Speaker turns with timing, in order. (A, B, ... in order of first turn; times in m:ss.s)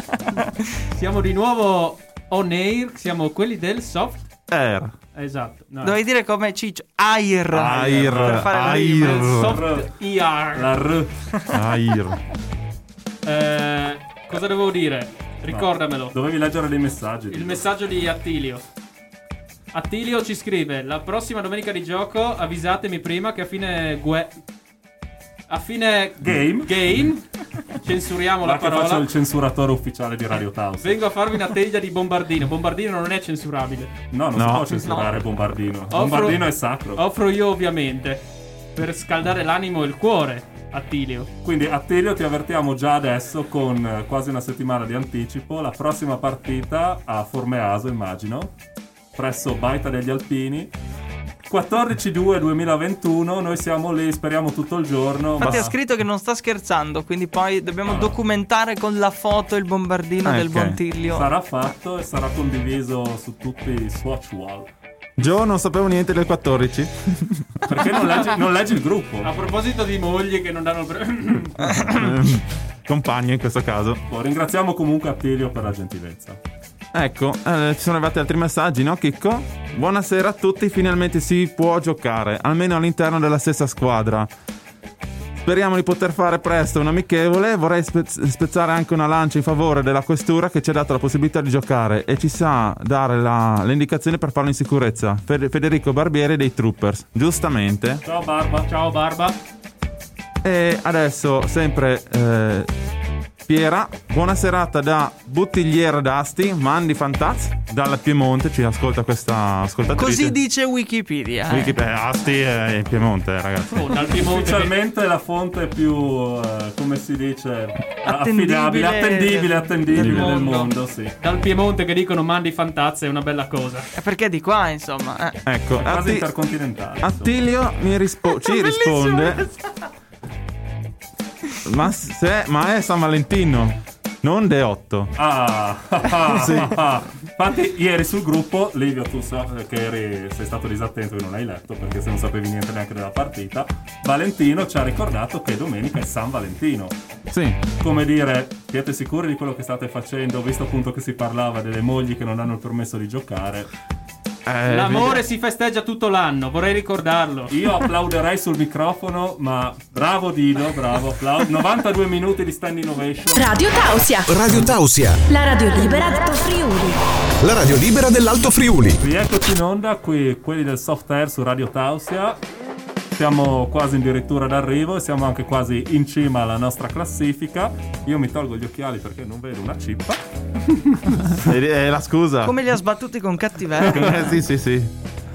0:00.9-0:04.2 A
0:04.5-0:04.9 B
0:05.1-0:06.0 A
0:05.8-0:09.4 C
0:07.5-0:09.6 B
0:07.9-0:08.5 D
0:08.7-0:10.7 A
0:09.4-0:09.9 D
0:10.5-0:11.1 D
0:11.5-0:12.2 B
0:13.2-0:16.1 A
0:15.5-0:17.6 D
0:17.3-0:18.6 A
0:19.7-0:24.3 A
0:25.5-0:29.1 A
0:26.2-0:26.8 D
0:28.4-0:31.0 D
0:30.8-0:33.9 A
0:34.1-0:37.0 D
0:34.3-0:34.9 B
0:35.9-0:38.2 A
0:38.8-0:41.3 A
0:41.4-0:48.5 D
0:49.1-0:50.7 D
0:51.5-0:55.7 D
0:55.4-1:01.3 C
0:55.4-0:55.7 B
0:57.8-0:58.2 D
1:00.2-1:00.8 B
1:01.1-1:04.7 D
1:05.2-1:07.8 B
1:07.6-1:09.3 D
1:09.2-1:11.9 A
1:11.6-1:14.0 B
1:14.1-1:16.4 D
1:16.9-1:24.3 B
1:25.4-1:38.0 B
1:38.0-1:38.7 D
1:38.6-1:39.3 A
1:40.4-1:42.7 B
1:43.5-1:50.4 B
1:50.0-1:51.8 C
1:51.5-1:53.9 B
1:53.7-1:54.7 A
1:54.1-2:01.1 D
1:58.0-2:00.3 C
1:59.9-2:00.3 B
2:00.0-2:03.9 A
2:03.9-2:05.4 C
2:05.4-2:06.3 B
2:05.8-2:07.3 D
2:07.0-2:09.4 B
2:08.3-2:09.6 C
2:11.6-2:15.1 B
2:15.2-2:26.9 D
2:16.3-2:16.8 B
2:27.3-2:27.6 B
2:27.8-2:33.7 D
2:34.4-2:35.2 B
2:34.7-2:37.5 A
2:37.5-2:43.5 D
2:43.3-2:44.4 E
2:44.3-2:45.2 F
2:45.3-2:47.0 E
2:47.4-2:49.0 F
2:49.0-2:52.4 D
2:53.2-3:00.2 D
3:00.7-3:01.2 D
3:01.2-3:02.6 B
3:02.4-3:04.4 C
3:03.8-3:04.9 B
3:03.9-3:04.2 D